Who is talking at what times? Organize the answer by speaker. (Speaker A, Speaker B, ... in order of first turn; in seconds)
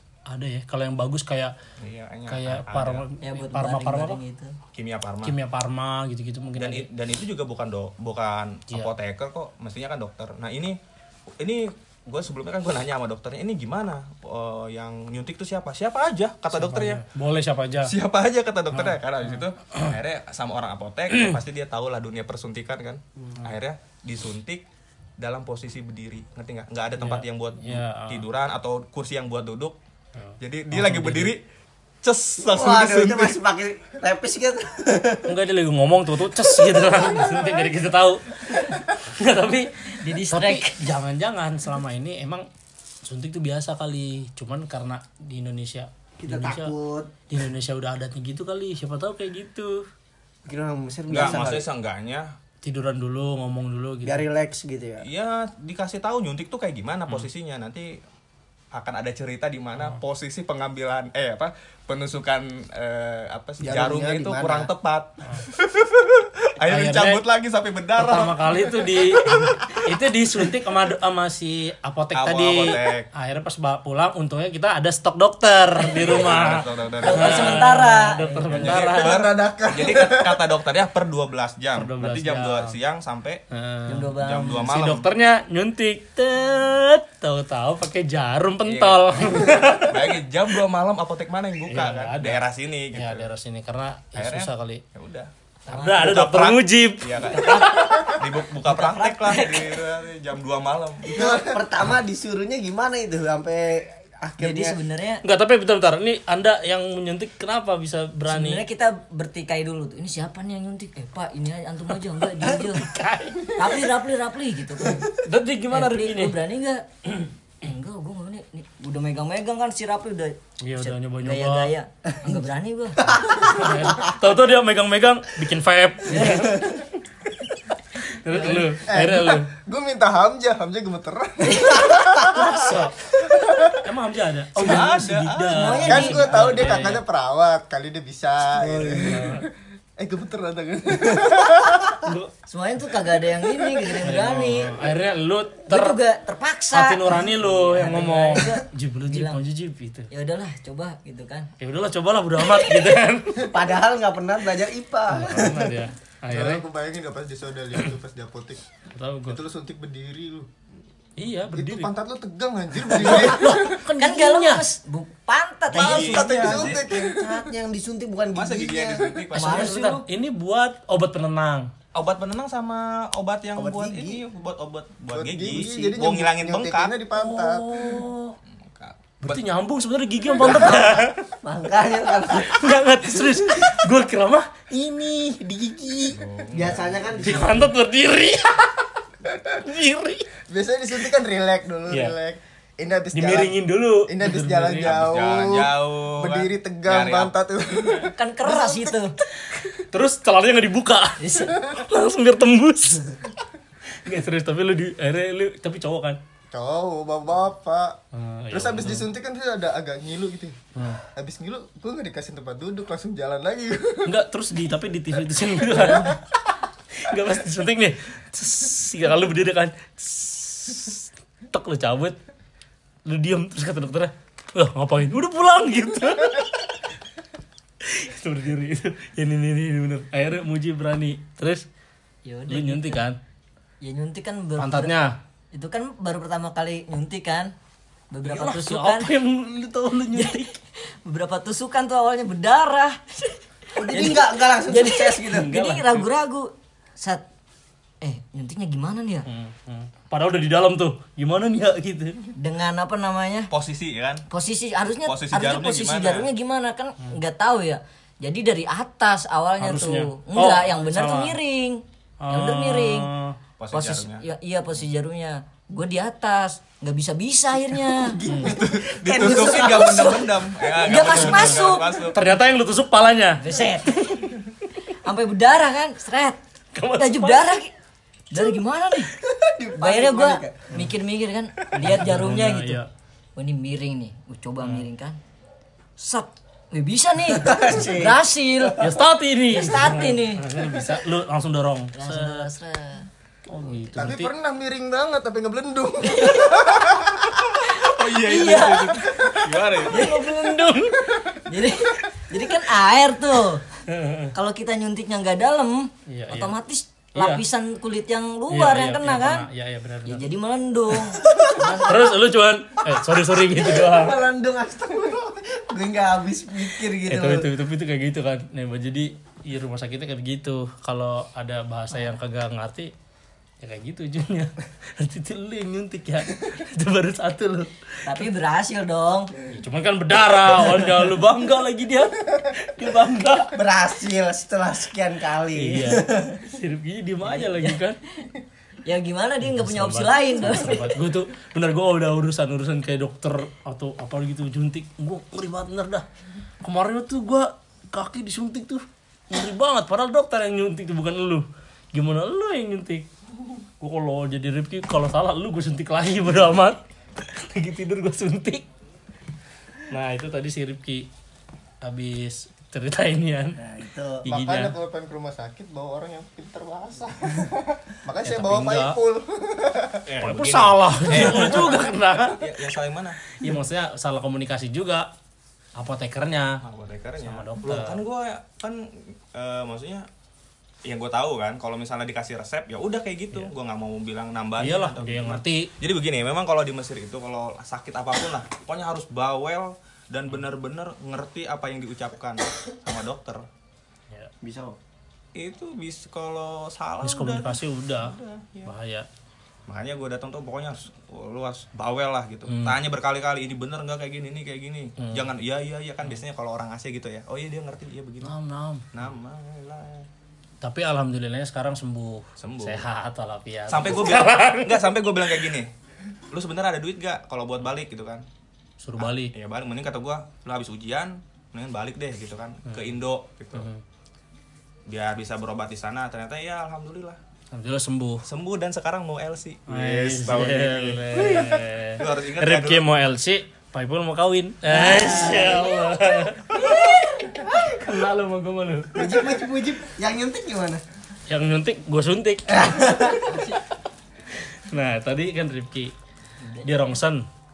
Speaker A: 0.3-1.5, 2.3-4.2, 5.2-6.9, 16.5-17.9, 18.7-19.9, 21.1-21.4, 27.0-28.2, 30.2-31.3, 35.3-42.5, 43.0-46.7, 47.3-49.9, 52.6-54.2, 66.6-67.2, 68.0-79.2, 81.8-82.8, 83.5-90.2, 91.7-92.4, 92.9-94.8, 95.7-98.0, 105.2-108.7, 112.6-113.9, 115.0-116.4, 120.6-121.7, 123.4-126.8, 127.7-129.5, 132.3-133.0, 133.8-137.0, 138.8-139.4, 142.0-142.3, 144.0-146.0, 146.7-150.1, 151.6-153.5, 155.1-156.7, 158.9-159.4, 161.2-161.9, 162.8-164.7, 169.6-171.7, 177.1-178.4, 179.2-181.2, 182.5-186.2, 187.2-188.8, 189.6-190.3, 191.9-192.2, 193.1-195.0, 199.5-203.2, 204.0-206.2, 208.1-209.1, 210.8-211.0, 214.1-216.3, 216.9-222.2, 223.1-226.8, 227.8-231.7, 232.5-233.2, 234.6-235.1, 238.2-240.5, 244.7-246.1, 249.3-252.2, 259.6-261.4, 262.2-263.4, 268.3-268.6, 271.0-271.6, 272.1-273.4, 276.8-277.6, 281.7-282.9, 288.8-292.5, 293.5-294.3, 299.9-301.3, 303.9-304.3, 306.1-306.6, 307.1-307.4, 308.5-310.3, 311.5-314.2, 317.1-322.9, 323.6-328.2, 329.5-333.6, 335.6-338.0, 339.4-346.1, 346.6-353.1, 353.8-358.7, 359.9-361.1, 361.8-363.6, 364.3-364.8, 368.2-369.0, 370.1-372.5, 373.4-375.1, 375.8-376.6, 377.2-378.0, 384.6-385.7, 397.0-399.1, 402.5-402.8, 405.0-405.3, 408.2-408.9, 410.6-414.9, 418.8-419.3, 422.7-422.9, 423.6-423.8, 427.5-428.2, 429.7-439.2, 441.3-443.1, 444.7-445.9, 446.6-447.2
Speaker B: 1.8-3.0, 4.7-5.4, 6.6-10.8, 11.4-17.0, 17.9-24.6, 25.2-29.8, 30.4-31.4, 32.0-33.4, 51.1-52.3, 55.0-58.0, 58.7-69.6, 72.2-73.1, 76.0-77.9, 78.5-83.4, 84.1-85.1, 88.7-93.3, 94.2-101.2, 134.6-136.0, 165.7-166.8, 168.3-170.0, 171.9-176.9, 178.7-179.4, 186.1-187.3, 194.8-197.3, 253.5-254.2, 255.1-256.3, 263.6-264.2, 268.5-272.4, 297.8-300.1, 370.2-373.3, 376.6-380.1, 380.9-393.5, 395.4-398.7, 399.7-408.3, 408.9-410.1, 412.4-412.8, 413.7-415.7, 416.3-418.2, 419.0-423.7, 424.9-427.2, 428.3-432.9
Speaker C: 3.2-4.6, 40.0-40.8, 75.8-76.4, 77.0-78.8, 83.9-84.7, 95.7-96.1, 97.3-99.8, 104.4-105.2, 108.3-112.9, 113.5-116.8, 117.6-123.7, 126.1-126.7, 128.3-128.7, 131.5-132.0, 135.5-136.8, 142.5-144.8, 145.7-149.4, 150.1-151.5, 164.0-166.4, 169.3-170.0, 197.9-199.2, 201.2-201.6, 232.2-233.0, 233.8-234.9, 235.5-237.5, 238.1-239.1, 240.1-240.5, 241.1-244.2, 245.3-247.2, 248.0-249.3, 252.4-253.5, 254.3-263.1, 263.7-268.2, 269.6-272.0, 273.4-276.4, 277.0-277.7, 278.3-279.1, 279.8-282.8, 283.4-285.2, 286.0-288.9, 289.5-290.6, 291.9-293.1, 296.1-296.6, 297.7-299.2, 299.9-300.7, 301.5-303.6, 304.4-309.5, 310.1-311.9, 328.1-329.3, 337.2-338.2, 338.9-341.1
Speaker D: 32.4-35.4, 46.2-47.1, 50.5-51.7, 54.0-55.1, 63.6-64.7, 101.1-104.8, 123.0-123.5, 138.6-139.3, 153.5-155.8, 165.7-169.8, 173.6-174.2, 181.4-182.6, 186.5-187.7, 243.8-245.6, 267.9-270.4, 279.2-280.7, 287.3-288.7, 311.3-311.9, 313.3-317.5, 333.5-336.4, 363.6-364.2, 394.4-394.8, 434.7-435.7, 438.9-440.8, 442.5-443.5
Speaker E: 78.8-80.5, 101.2-101.6, 128.8-133.9, 135.8-139.4, 140.0-142.1, 156.3-158.6, 159.3-160.5, 161.5-163.8, 166.0-167.4, 175.1-177.8, 190.5-198.1, 206.5-208.0, 208.5-210.6, 211.2-214.2, 215.7-216.2, 293.9-297.7, 299.1-299.5, 364.2-370.0